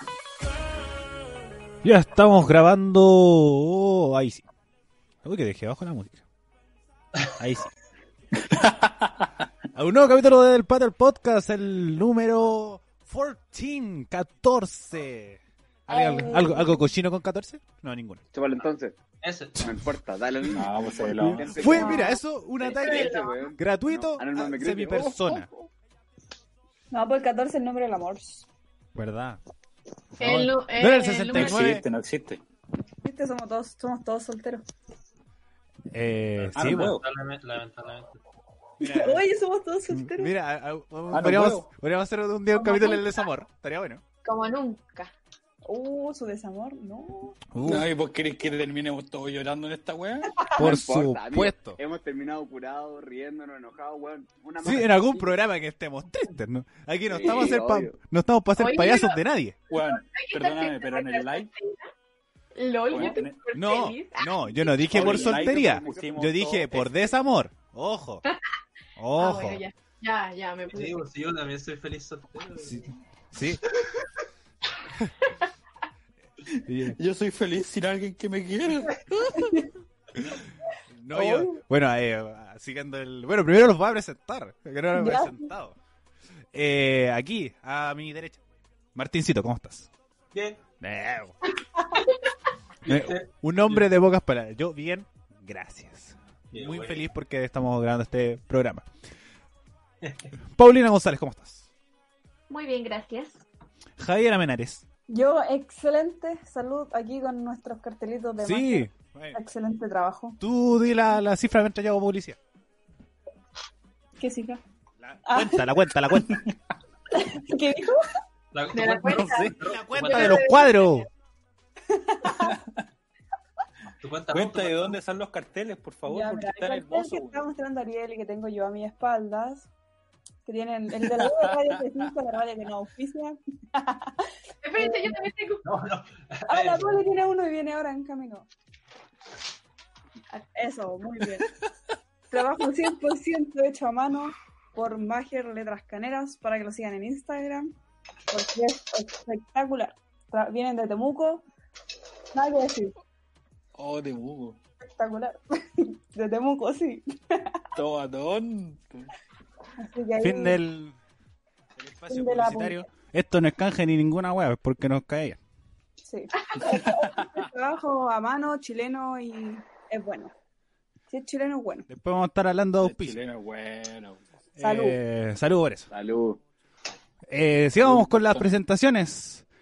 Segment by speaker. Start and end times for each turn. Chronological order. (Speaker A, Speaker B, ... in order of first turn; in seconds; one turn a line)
Speaker A: 1.8-4.4
Speaker A: 5.2-6.2
Speaker A: 7.4-7.7
Speaker B: 8.4-9.3
Speaker A: 9.7-18.2
Speaker C: 15.9-16.7
Speaker D: 18.3-18.9
Speaker E: 19.2-19.6
Speaker D: 19.6-25.2
Speaker B: 20.5-21.8
Speaker A: 21.6-25.5
Speaker C: 21.6-22.2
Speaker C: 22.7-23.6
Speaker B: 25.0-25.4
Speaker F: 26.9-28.5
Speaker A: 28.9-29.4
Speaker C: 30.2-31.7
Speaker A: 30.2-31.8
Speaker B: 31.3-32.4
Speaker F: 33.0-34.6
Speaker A: 35.9-37.0
Speaker E: 36.4-38.2
Speaker B: 36.5-37.0
Speaker A: 38.8-39.3
Speaker F: 38.8-40.3
Speaker A: 39.9-44.0
Speaker B: 41.1-41.7
Speaker F: 42.6-43.0
Speaker C: 42.6-43.0
Speaker C: 44.2-45.1
Speaker F: 45.6-47.4
Speaker A: 47.5-47.9
Speaker B: 47.6-50.5
Speaker A: 50.5-51.8
Speaker D: 50.5-55.4
Speaker A: 54.6-59.6
Speaker D: 57.1-58.0
Speaker C: 58.6-61.9
Speaker B: 59.7-61.5
Speaker C: 62.5-64.8
Speaker B: 62.9-63.5
Speaker A: 63.5-68.2
Speaker B: 64.8-67.1
Speaker D: 64.9-66.4
Speaker A: 69.0-69.6
Speaker C: 69.1-71.0
Speaker E: 70.7-72.9
Speaker A: 73.3-73.6
Speaker A: 76.7-77.0
Speaker B: 76.8-79.7
Speaker F: 79.3-79.7
Speaker A: 80.9-85.8
Speaker F: 81.1-81.6
Speaker F: 84.9-85.5
Speaker A: 86.5-88.4
Speaker A: 88.9-89.9
Speaker E: 90.3-90.6
Speaker A: 90.8-91.3
Speaker E: 92.8-93.8
Speaker A: 92.8-98.8
Speaker E: 96.5-97.0
Speaker E: 100.0-100.3
Speaker A: 100.5-101.6
Speaker C: 102.5-103.4
Speaker A: 104.0-104.8
Speaker F: 105.1-110.4
Speaker A: 108.4-109.4
Speaker A: 110.4-112.4
Speaker F: 114.2-114.6
Speaker A: 115.0-116.5
Speaker F: 115.2-115.7
Speaker B: 116.2-116.5
Speaker F: 117.1-118.1
Speaker E: 118.5-120.7
Speaker C: 118.7-121.0
Speaker A: 119.1-121.1
Speaker F: 121.9-122.6
Speaker B: 122.2-122.8
Speaker E: 124.0-125.0
Speaker B: 124.3-127.4
Speaker F: 126.0-129.7
Speaker F: 130.4-134.2
Speaker B: 131.0-131.8
Speaker C: 134.6-135.6
Speaker F: 134.8-135.3
Speaker E: 135.6-137.1
Speaker F: 136.4-138.5
Speaker F: 140.5-141.5
Speaker F: 142.3-147.7
Speaker F: 148.3-151.4
Speaker F: 152.3-152.9
Speaker B: 153.8-154.6
Speaker F: 154.8-157.6
Speaker B: 157.7-159.1
Speaker F: 159.8-160.6
Speaker A: 160.2-160.9
Speaker A: 161.8-165.4
Speaker F: 162.1-162.8
Speaker F: 166.0-170.3
Speaker B: 166.6-167.5
Speaker F: 171.1-171.9
Speaker A: 171.9-173.2
Speaker B: 172.8-174.2
Speaker A: 174.6-175.9
Speaker F: 174.6-175.0
Speaker D: 175.9-176.4
Speaker A: 177.3-179.4
Speaker B: 177.8-178.5